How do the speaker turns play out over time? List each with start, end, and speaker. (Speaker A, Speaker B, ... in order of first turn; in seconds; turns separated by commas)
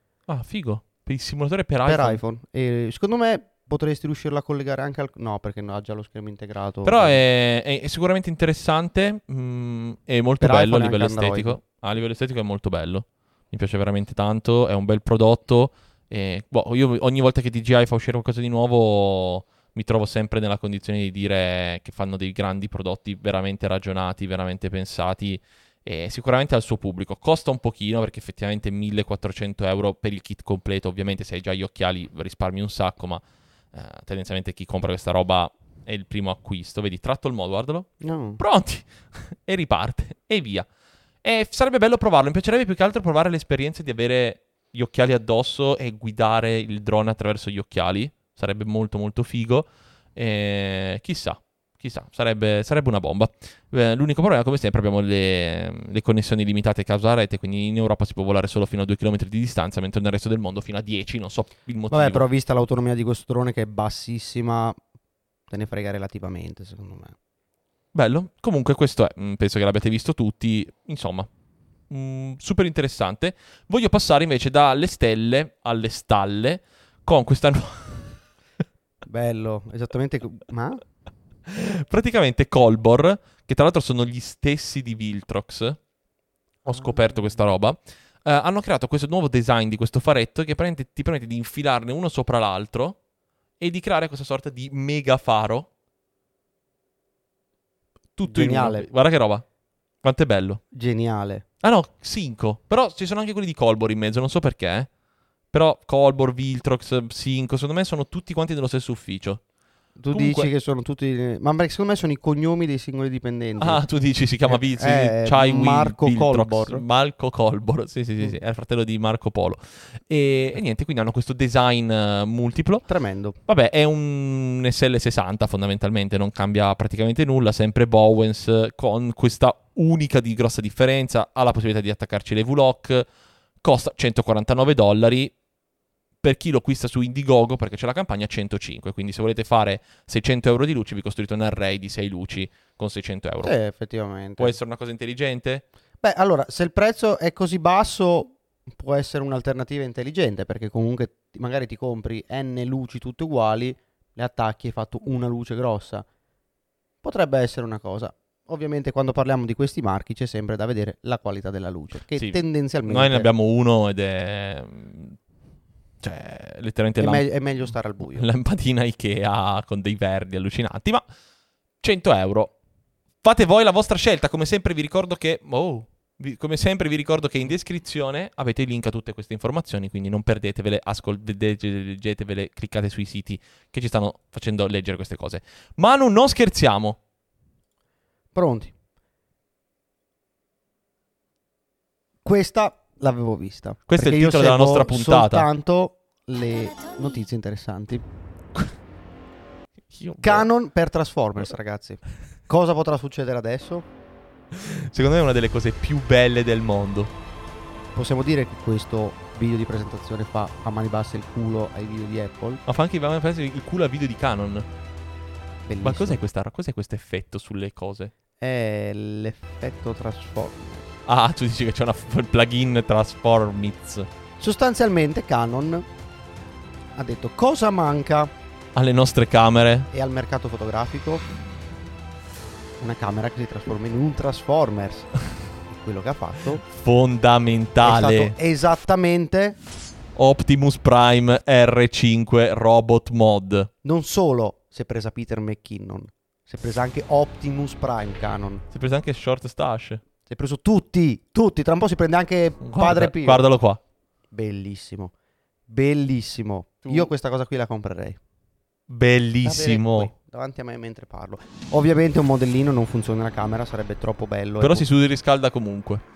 Speaker A: 0.3-2.2, Speaker B: 1.9-7.2, Speaker A: 6.8-40.7, Speaker B: 10.4-11.6, Speaker B: 38.0-38.4, Speaker A: 41.2-62.2, Speaker B: 61.9-64.8, Speaker B: 65.5-67.1, Speaker A: 67.9-71.3, Speaker A: 71.9-78.2, Speaker B: 79.0-80.8, Speaker A: 81.5-85.8, Speaker A: 86.6-93.0, Speaker A: 93.6-95.7, Speaker A: 98.2-99.4, Speaker B: 98.2-98.9, Speaker A: 100.0-100.6, Speaker B: 100.7-101.4, Speaker A: 101.6-104.9, Speaker A: 105.5-109.4, Speaker B: 110.0-113.8, Speaker A: 110.1-110.5, Speaker A: 113.6-122.8, Speaker B: 114.5-116.8, Speaker B: 122.9-123.4, Speaker A: 123.5-133.1, Speaker A: 133.6-135.3, Speaker A: 136.2-143.5, Speaker B: 143.4-144.6, Speaker A: 144.4-145.6, Speaker B: 146.0-156.1, Speaker B: 157.0-163.3, Speaker A: 162.2-165.2, Speaker A: 166.0-167.3, Speaker B: 167.0-168.3, Speaker A: 168.1-171.0, Speaker A: 171.8-172.5, Speaker A: 173.2-187.0, Speaker B: 188.3-188.7, Speaker B: 192.2-198.0, Speaker A: 193.9-195.5, Speaker A: 199.9-200.5, Speaker B: 200.2-203.9, Speaker A: 204.5-207.1, Speaker B: 207.9-212.6, Speaker A: 212.7-214.7, Speaker B: 215.7-216.2, Speaker A: 215.8-218.1, Speaker B: 218.4-220.9, Speaker A: 221.1-224.1, Speaker B: 224.4-225.9, Speaker B: 226.9-228.3, Speaker A: 228.7-229.9, Speaker B: 229.9-231.2, Speaker B: 232.8-235.1, Speaker B: 235.7-236.6, Speaker A: 236.6-238.3, Speaker B: 237.8-239.6, Speaker A: 240.2-243.7, Speaker B: 243.8-248.6, Speaker A: 248.7-250.0, Speaker B: 250.3-253.4, Speaker A: 252.6-253.8, Speaker B: 254.3-255.1, Speaker B: 255.7-258.2, Speaker A: 258.9-260.1, Speaker B: 259.4-264.9, Speaker A: 264.6-266.0